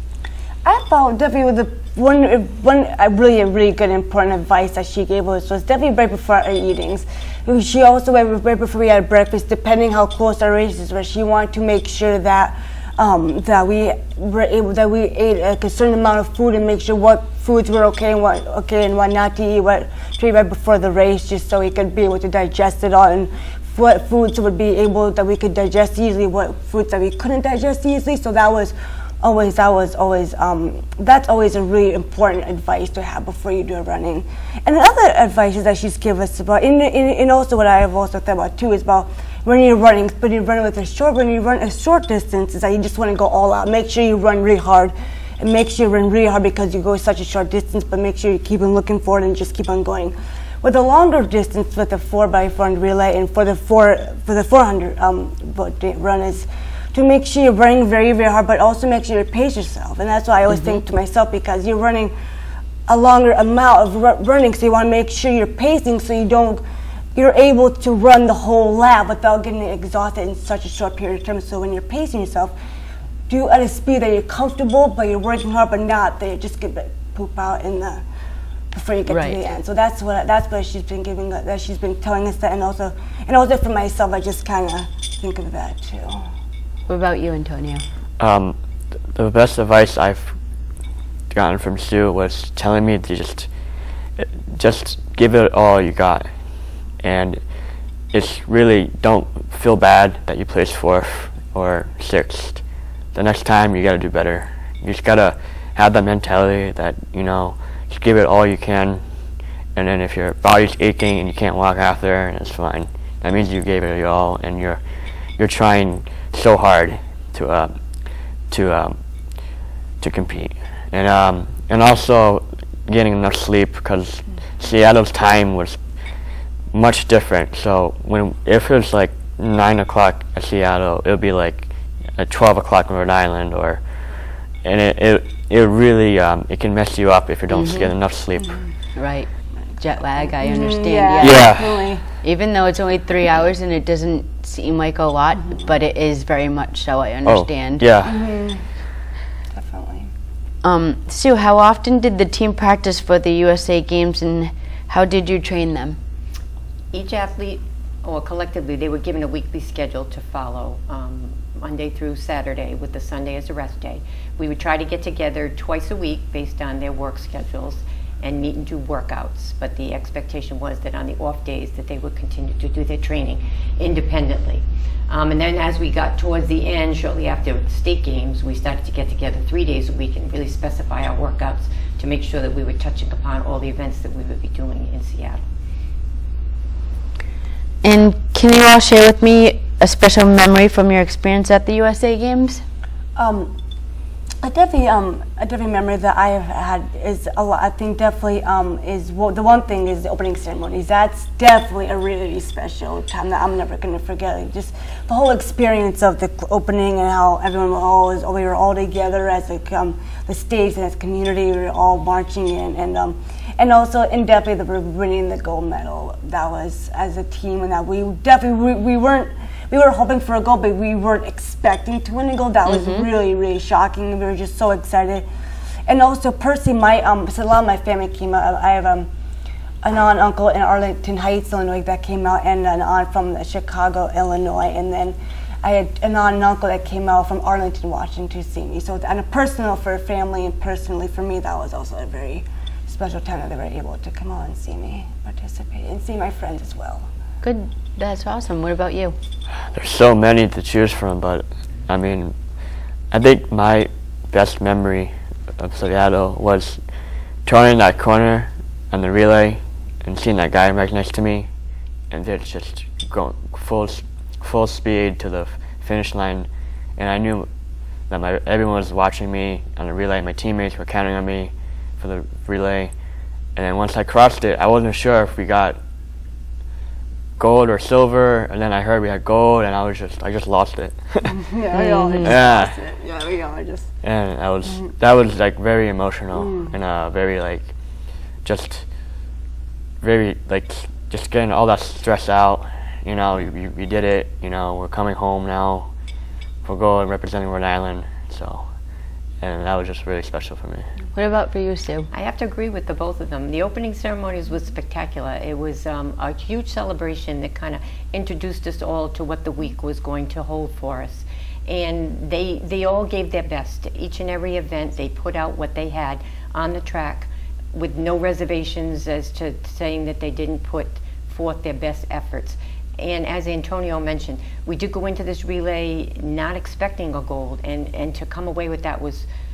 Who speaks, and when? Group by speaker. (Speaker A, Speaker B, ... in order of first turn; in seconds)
Speaker A: 0.6-62.1, 62.9-66.6, 67.1-72.5, 73.3-78.0, 78.7-86.2, 140.4-142.0, 148.0-148.6, 149.5-150.1, 193.2-193.5, 194.4-225.2, 225.9-229.1, 229.8-247.1, 281.3-283.9, 286.3-286.7
Speaker B: 60.5-60.8, 79.1-79.4, 86.9-87.8, 137.5-137.9, 138.9-141.7, 142.2-147.8, 150.6-156.0, 187.8-192.6, 222.6-223.1, 247.4-249.2, 281.7-282.4, 301.1-302.1
Speaker C: 88.2-90.4, 91.3-138.6, 141.2-141.8, 147.2-148.3, 249.5-256.9, 257.4-261.5, 262.1-267.5, 268.1-272.9, 273.5-275.8, 277.4-281.4, 282.2-282.8, 284.0-288.9, 290.0-295.9, 296.6-298.8, 299.4-300.9
Speaker D: 156.9-185.4, 302.1-329.3